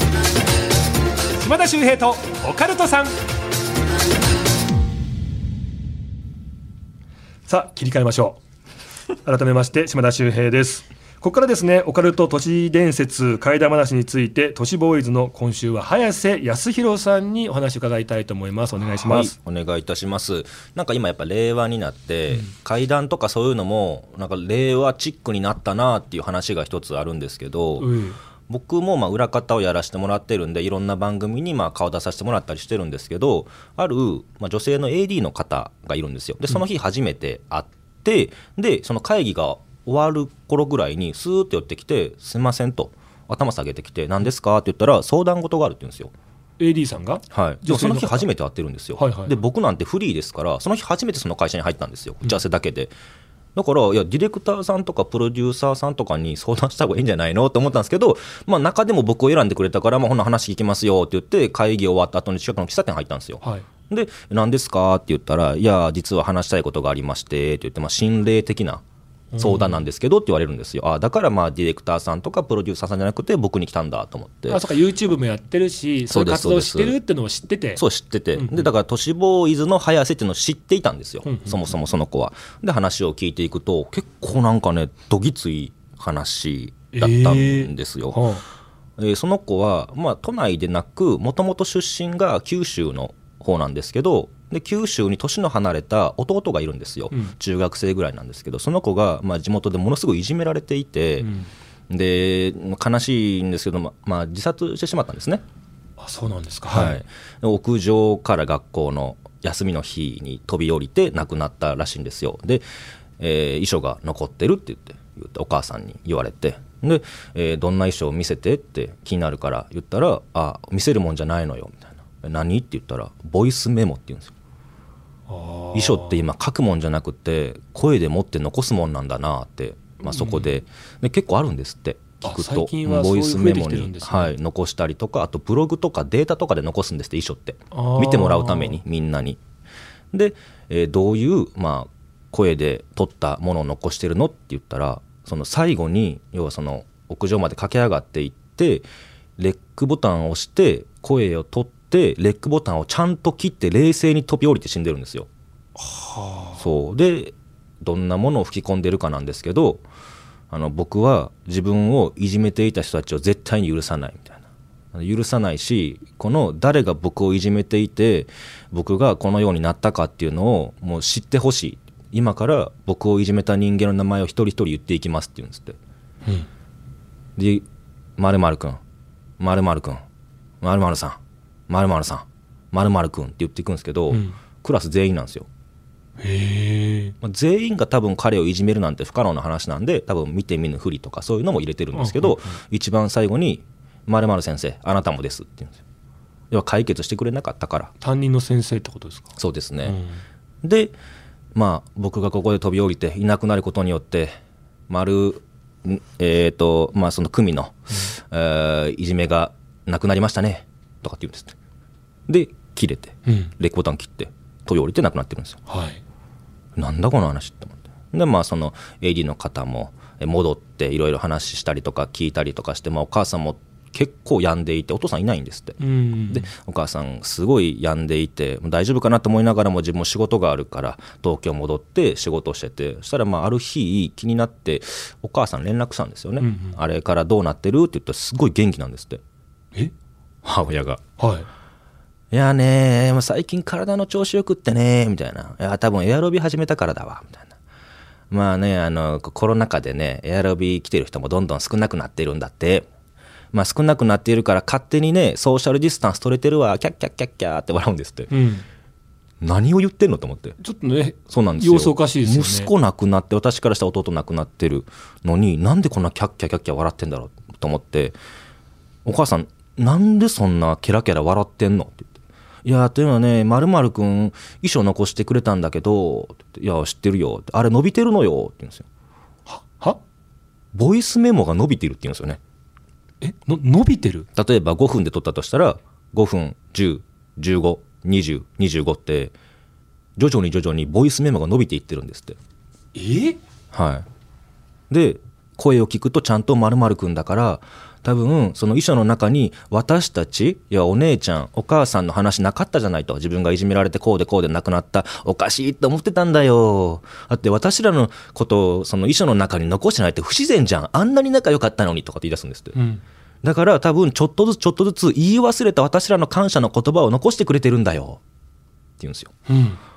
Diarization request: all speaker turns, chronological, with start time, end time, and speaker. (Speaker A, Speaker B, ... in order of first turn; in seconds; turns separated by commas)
Speaker A: 1.4-3.1, Speaker A: 7.5-8.4, Speaker A: 9.2-19.3, Speaker B: 19.0-27.9, Speaker A: 27.8-28.2, Speaker B: 28.5-46.1, Speaker A: 46.6-48.3, Speaker B: 47.3-52.9, Speaker A: 49.0-49.3, Speaker B: 53.5-68.8, Speaker A: 69.3-69.8, Speaker B: 69.4-74.6, Speaker A: 74.5-77.8, Speaker B: 76.1-77.0, Speaker B: 77.8-88.2, Speaker A: 78.3-78.7, Speaker A: 81.2-81.6, Speaker A: 86.9-88.4, Speaker B: 89.0-101.3, Speaker A: 101.2-101.5, Speaker B: 101.9-105.4, Speaker A: 106.0-107.0, Speaker B: 106.7-112.6, Speaker B: 113.2-124.3, Speaker A: 125.3-126.2, Speaker B: 125.7-139.4, Speaker A: 130.1-130.5, Speaker A: 132.2-134.3, Speaker A: 137.7-138.8, Speaker B: 140.1-148.8, Speaker B: 149.4-155.3, Speaker A: 155.8-156.6, Speaker B: 156.6-159.8, Speaker B: 160.5-164.4, Speaker B: 164.9-175.8, Speaker B: 177.4-177.6, Speaker B: 178.2-178.8, Speaker B: 179.4-180.0, Speaker B: 180.6-185.5, Speaker A: 184.1-184.3, Speaker A: 186.2-187.2, Speaker B: 187.2-195.8, Speaker A: 191.9-192.5, Speaker B: 196.5-197.9, Speaker A: 198.0-200.2, Speaker B: 199.4-200.0, Speaker B: 200.6-200.9, Speaker B: 201.5-204.3, Speaker B: 204.9-211.6, Speaker B: 212.3-215.6, Speaker A: 213.2-213.5, Speaker A: 215.7-216.0, Speaker B: 216.8-239.2, Speaker A: 225.8-226.5, Speaker A: 236.4-236.8, Speaker B: 240.4-241.0, Speaker A: 241.2-241.5, Speaker B: 242.3-247.5, Speaker B: 248.3-252.9, Speaker B: 253.5-258.3, Speaker A: 258.3-258.6, Speaker B: 259.4-260.6, Speaker A: 260.6-262.7, Speaker B: 261.3-268.1, Speaker B: 269.0-272.1, Speaker B: 272.6-278.9, Speaker A: 279.5-280.0, Speaker B: 280.7-282.4, Speaker A: 283.2-284.3, Speaker B: 284.4-289.3, Speaker B: 290.2-292.4, Speaker A: 292.9-293.4, Speaker B: 293.7-294.1, Speaker B: 294.9-312.8, Speaker A: 312.7-313.0, Speaker B: 313.4-318.2, Speaker B: 319.0-319.3, Speaker A: 319.5-319.8